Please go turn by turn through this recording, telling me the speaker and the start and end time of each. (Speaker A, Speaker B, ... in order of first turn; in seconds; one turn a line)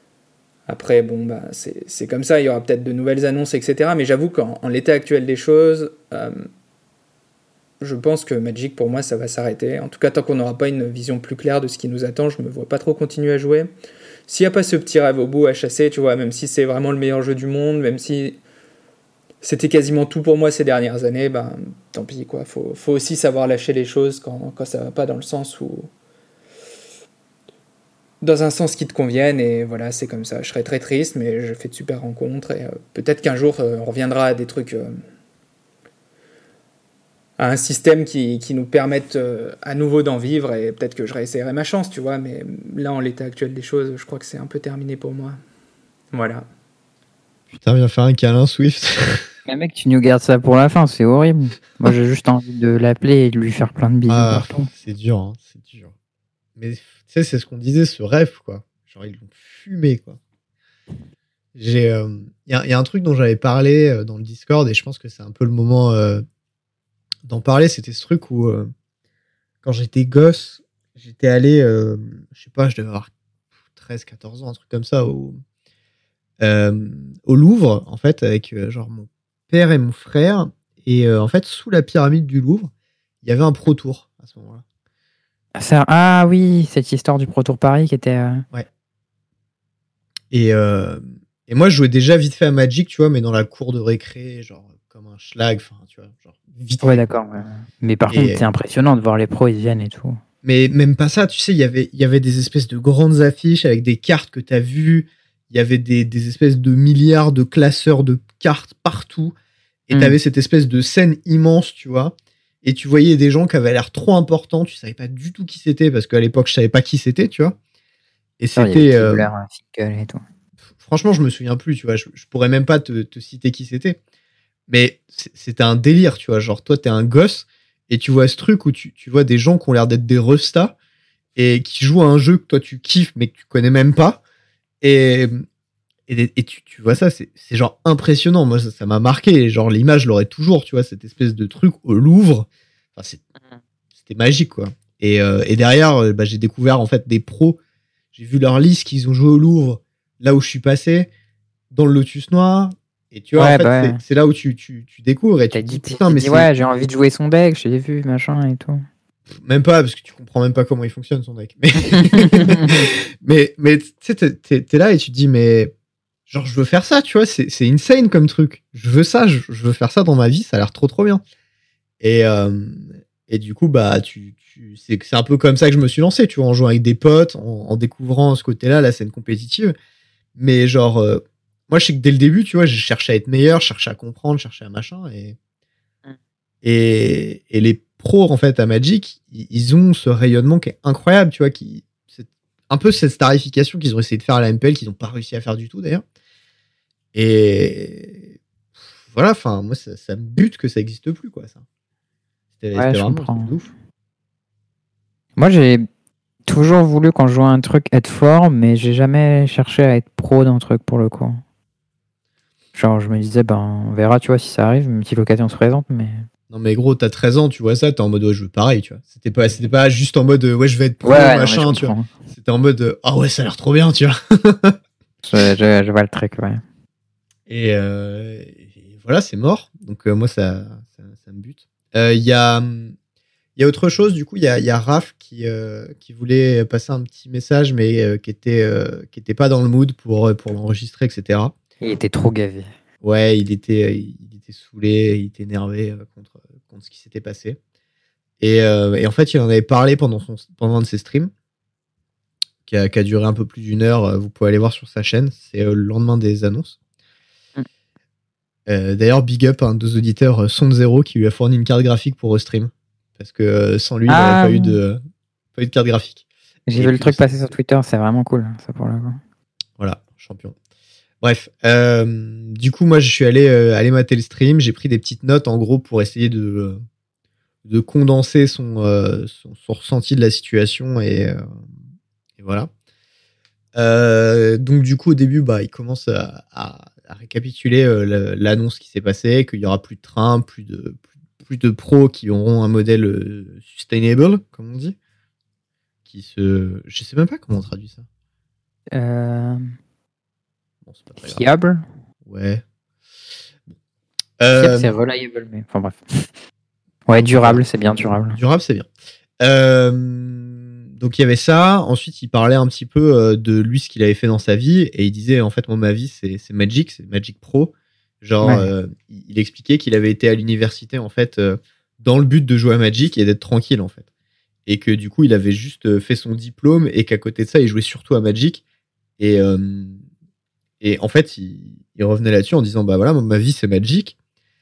Speaker A: 0.7-6.5
Speaker A: 7.8-13.7
Speaker A: 14.3-18.4
Speaker A: 19.4-25.9
Speaker A: 28.2-35.0
Speaker A: 37.4-45.4
Speaker A: 46.1-46.4
Speaker B: 47.5-49.2
Speaker C: 49.5-54.7
Speaker B: 54.1-55.9
Speaker B: 56.6-60.2
Speaker B: 61.5-66.2
Speaker B: 67.2-68.7
Speaker B: 69.6-73.1
Speaker B: 73.7-75.4
Speaker B: 76.4-82.7
Speaker B: 83.2-84.6
Speaker C: 85.5-88.4
Speaker B: 90.3-97.2
Speaker C: 96.8-100.2
Speaker B: 98.1-98.4
Speaker B: 100.4-109.3
Speaker B: 109.9-117.6
Speaker B: 118.4-119.3
Speaker C: 118.5-120.2
Speaker B: 120.8-124.0
Speaker B: 124.7-130.7
Speaker B: 131.3-134.2
Speaker B: 134.8-135.4
Speaker B: 136.1-143.2
Speaker B: 143.9-147.6
Speaker B: 148.1-151.1
Speaker B: 151.7-156.5
Speaker C: 153.3-154.0
Speaker C: 155.5-158.8
Speaker B: 159.3-165.7
Speaker C: 162.0-162.9
Speaker B: 166.3-171.2
Speaker B: 172.0-179.7
Speaker B: 180.3-185.4
Speaker B: 186.6-196.0
Speaker B: 197.1-198.3
Speaker B: 199.0-201.6
Speaker B: 202.6-203.7
Speaker C: 202.7-203.5
Speaker C: 205.4-205.9
Speaker C: 206.5-211.4
Speaker C: 212.7-216.2
Speaker B: 216.5-224.8
Speaker C: 221.0-222.1
Speaker C: 225.3-226.6
Speaker B: 227.5-232.9
Speaker B: 233.6-241.5
Speaker C: 241.8-242.7
Speaker B: 243.0-247.6
Speaker B: 248.4-251.3
Speaker B: 252.7-256.8
Speaker B: 258.7-265.0
Speaker C: 264.1-264.8
Speaker B: 265.5-266.2
Speaker C: 266.7-269.2
Speaker B: 266.7-267.2
Speaker B: 269.8-270.5
Speaker B: 271.2-276.8
Speaker B: 277.6-281.4
Speaker B: 282.4-282.7
Speaker B: 283.7-294.9
Speaker B: 296.1-298.0
Speaker C: 298.9-299.6
Speaker B: 300.8-301.4
Speaker C: 301.2-301.8
Speaker B: 302.2-302.6
Speaker B: 304.4-304.9
Speaker C: 304.6-306.2
Speaker C: 307.1-308.4
Speaker B: 307.2-307.6
Speaker B: 308.3-308.9
Speaker B: 309.4-324.1
Speaker C: 318.4-318.7
Speaker B: 324.6-328.6
Speaker B: 329.2-330.0
Speaker B: 330.8-334.1